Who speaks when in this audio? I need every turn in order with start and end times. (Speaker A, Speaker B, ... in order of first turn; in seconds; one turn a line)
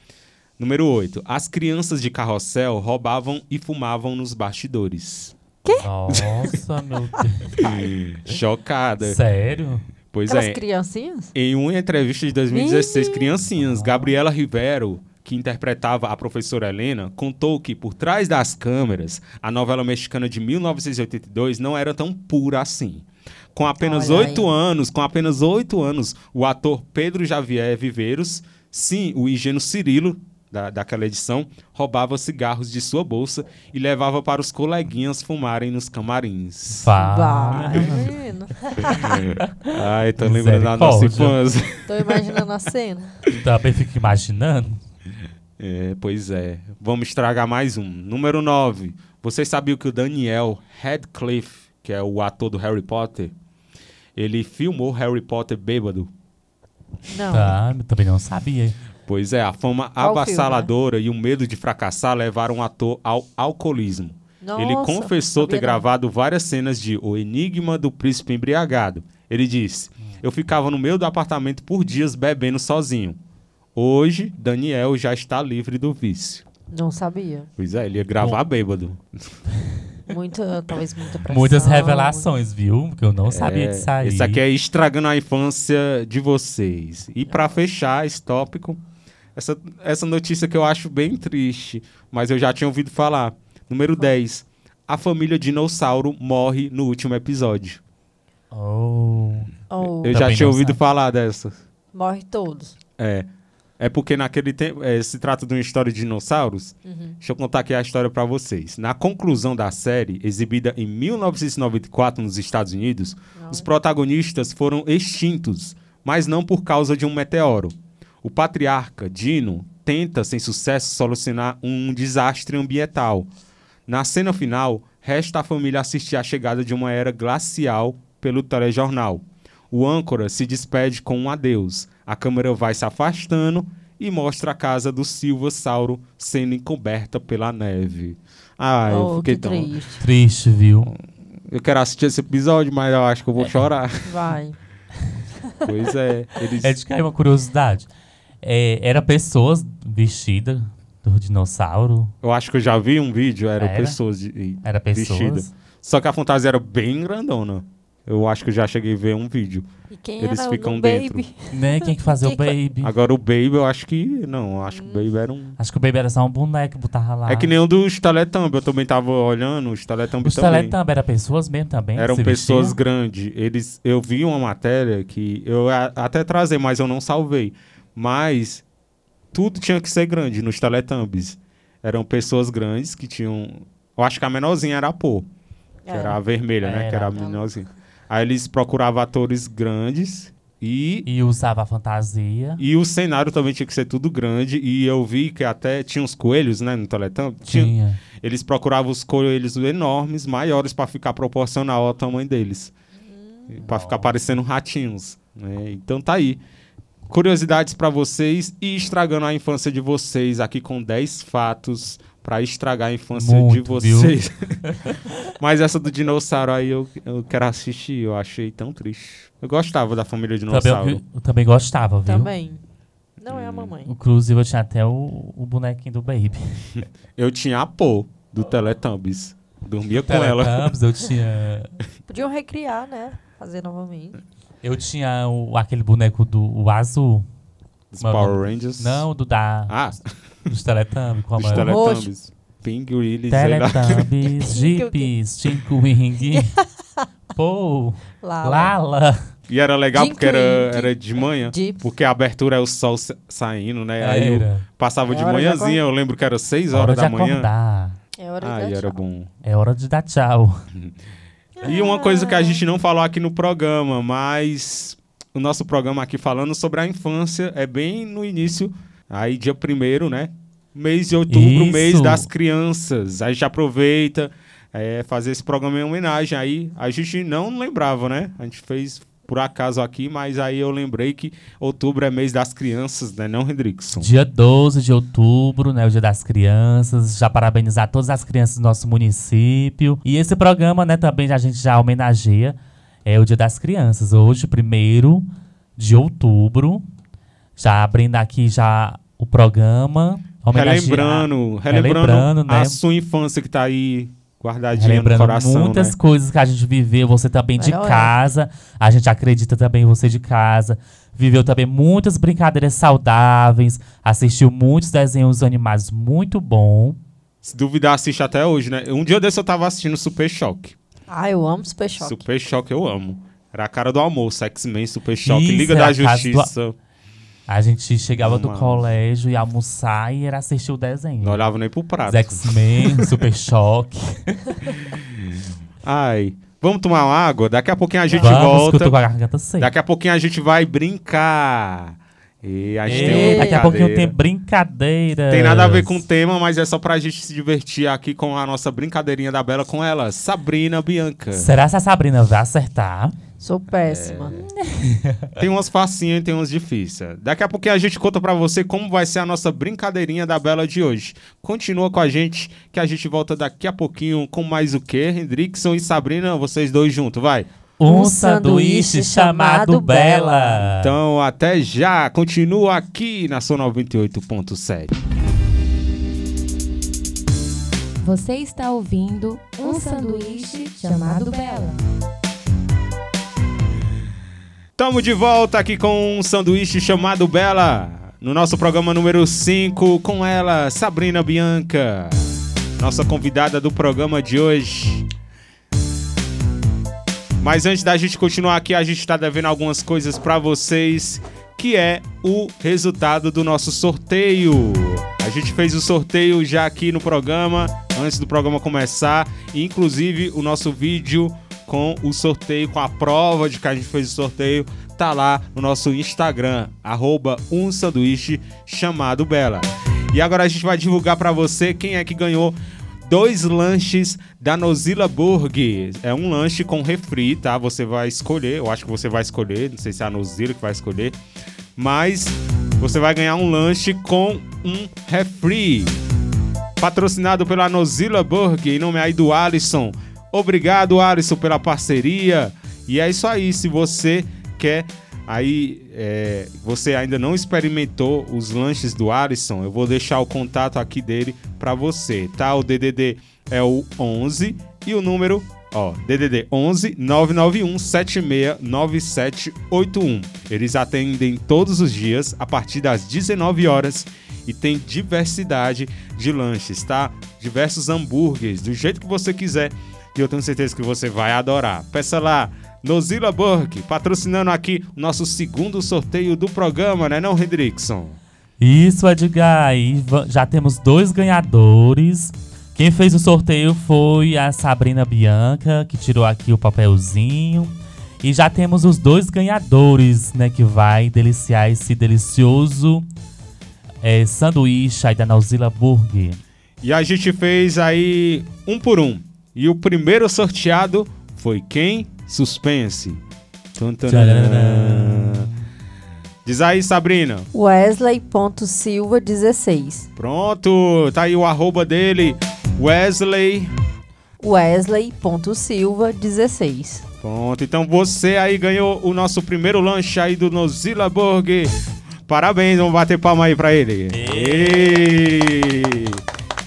Speaker A: 0.6-5.3
Speaker B: 5.7-6.5
Speaker C: 5.8-7.6
Speaker A: 7.6-9.2
Speaker C: 9.0-9.9
Speaker A: 10.1-10.6
Speaker B: 10.3-11.3
Speaker A: 11.3-36.9
Speaker B: 12.5-13.3
Speaker C: 13.5-14.1
Speaker B: 23.8-24.5
Speaker C: 36.7-38.1
Speaker B: 37.0-39.2
Speaker A: 38.9-42.3
Speaker C: 40.2-41.4
Speaker B: 41.9-43.2
Speaker C: 43.3-44.8
Speaker A: 45.6-53.3
Speaker A: 54.2-56.1
Speaker B: 57.1-57.6
Speaker C: 57.3-58.8
Speaker A: 59.1-73.2
Speaker B: 60.0-60.7
Speaker B: 64.4-65.8
Speaker A: 73.8-76.5
Speaker B: 76.7-77.5
Speaker A: 77.6-79.3
Speaker B: 80.1-82.3
Speaker C: 81.3-84.4
Speaker A: 83.3-88.8
Speaker A: 89.4-97.8
Speaker C: 98.5-99.5
Speaker B: 99.7-100.2
Speaker A: 99.8-101.5
Speaker C: 100.1-100.8
Speaker B: 101.9-102.8
Speaker A: 103.0-103.3
Speaker A: 103.8-123.3
Speaker B: 106.9-107.2
Speaker B: 113.4-113.7
Speaker A: 123.9-139.7
Speaker B: 138.9-140.0
Speaker C: 140.0-140.9
Speaker A: 141.5-144.1
Speaker B: 144.1-144.6
Speaker A: 145.6-146.8
Speaker C: 146.6-147.9
Speaker C: 148.4-152.1
Speaker A: 152.2-159.7
Speaker C: 153.6-154.0
Speaker C: 154.6-155.5
Speaker B: 159.9-162.5
Speaker A: 160.2-161.2
Speaker C: 161.5-162.9
Speaker A: 162.8-165.6
Speaker B: 164.7-165.1
Speaker C: 165.6-167.5
Speaker A: 167.3-170.8
Speaker C: 170.2-172.8
Speaker A: 172.0-178.6
Speaker A: 179.3-185.3
Speaker B: 185.9-186.2
Speaker A: 185.9-191.1
Speaker C: 186.6-187.4
Speaker C: 191.1-192.6
Speaker A: 192.6-202.7
Speaker C: 197.5-198.0
Speaker A: 203.5-206.4
Speaker C: 203.6-204.1
Speaker A: 207.1-221.0
Speaker C: 213.1-214.2
Speaker C: 214.7-215.0
Speaker C: 220.5-222.3
Speaker B: 222.1-222.6
Speaker B: 223.2-223.9
Speaker A: 223.3-223.8
Speaker C: 223.9-226.7
Speaker A: 227.2-230.8
Speaker C: 230.0-231.8
Speaker B: 232.1-234.2
Speaker C: 234.6-237.3
Speaker A: 237.9-239.1
Speaker C: 238.0-239.8
Speaker A: 239.7-240.0
Speaker C: 240.5-241.8
Speaker A: 241.4-244.1
Speaker B: 241.5-242.1
Speaker C: 243.3-246.5
Speaker B: 244.4-245.1
Speaker B: 246.3-247.1
Speaker C: 247.3-249.3
Speaker B: 248.2-248.7
Speaker A: 249.5-257.5
Speaker B: 249.9-251.8
Speaker C: 254.0-254.7
Speaker B: 255.1-255.8
Speaker C: 256.7-258.0
Speaker B: 258.2-259.0
Speaker A: 258.4-259.3
Speaker C: 259.4-260.6
Speaker B: 261.6-262.6
Speaker A: 261.6-284.1
Speaker C: 271.3-272.3
Speaker C: 283.9-295.3
Speaker C: 295.8-296.8
Speaker C: 297.6-302.8
Speaker A: 300.5-305.9
Speaker C: 304.8-317.0
Speaker B: 307.6-308.1
Speaker A: 317.4-320.8
Speaker B: 321.1-322.2
Speaker A: 322.0-326.8
Speaker C: 325.2-326.5
Speaker C: 327.5-331.4
Speaker A: 328.2-328.9
Speaker A: 331.2-333.2
Speaker C: 332.1-334.6
Speaker A: 334.8-339.0
Speaker C: 338.1-339.7
Speaker A: 339.6-344.1
Speaker C: 342.9-346.0
Speaker B: 342.9-343.6
Speaker A: 345.3-351.5
Speaker C: 351.3-353.1
Speaker B: 353.4-354.4
Speaker A: 353.7-354.5
Speaker C: 354.8-355.4
Speaker A: 355.4-367.5
Speaker C: 367.8-370.9
Speaker B: 367.9-370.7
Speaker A: 370.8-374.9
Speaker D: 378.0-381.8
Speaker A: 384.8-395.1
Speaker A: 397.4-431.2
Speaker A: 431.8-436.0
Speaker A: 436.8-478.2
Speaker C: 478.6-493.1
Speaker C: 494.0-496.4
Speaker A: 496.8-503.2
Speaker A: 503.8-505.5
Speaker C: 504.1-505.6
Speaker A: 506.4-507.5
Speaker B: 507.5-510.1
Speaker A: 510.2-513.7
Speaker B: 514.4-517.1
Speaker A: 517.2-521.7
Speaker A: 522.3-526.2
Speaker C: 524.1-525.0